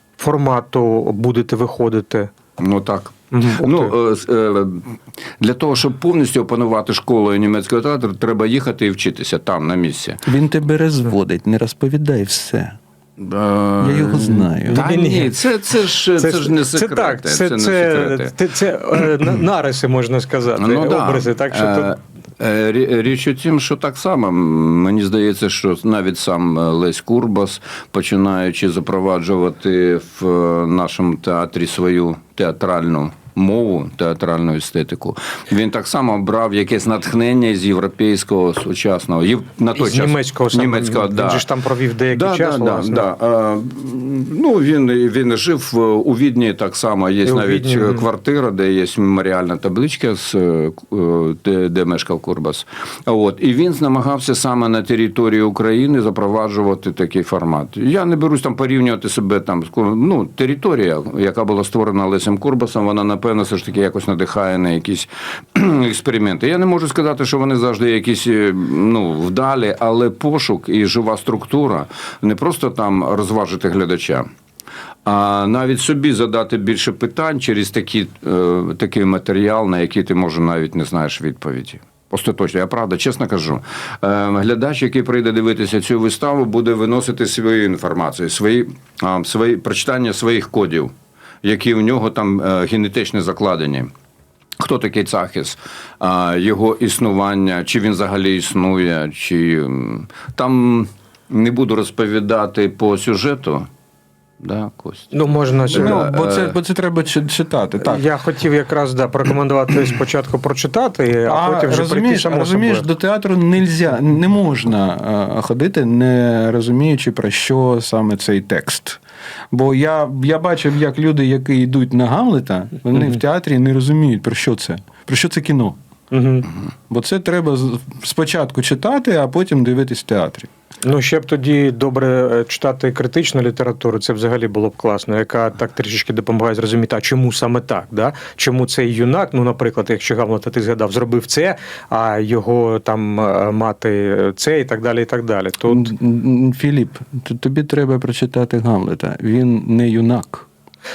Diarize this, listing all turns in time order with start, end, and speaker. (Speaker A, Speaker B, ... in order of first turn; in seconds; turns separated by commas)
Speaker A: 0.2-2.3, Speaker B: 2.6-10.2, Speaker A: 3.3-3.9, Speaker C: 10.2-12.8, Speaker B: 13.2-18.3, Speaker C: 13.8-14.8, Speaker A: 14.7-15.3, Speaker A: 16.2-21.9, Speaker B: 20.6-41.5, Speaker A: 39.7-43.0, Speaker B: 42.1-74.3, Speaker A: 47.2-48.0, Speaker B: 75.0-93.9, Speaker B: 94.6-103.7, Speaker B: 104.4-106.5, Speaker A: 105.1-106.1, Speaker C: 105.7-108.0, Speaker A: 107.8-112.8, Speaker C: 111.2-119.0, Speaker C: 119.5-125.8, Speaker A: 126.1-126.5, Speaker C: 126.9-130.5, Speaker A: 130.8-145.9, Speaker C: 145.7-150.5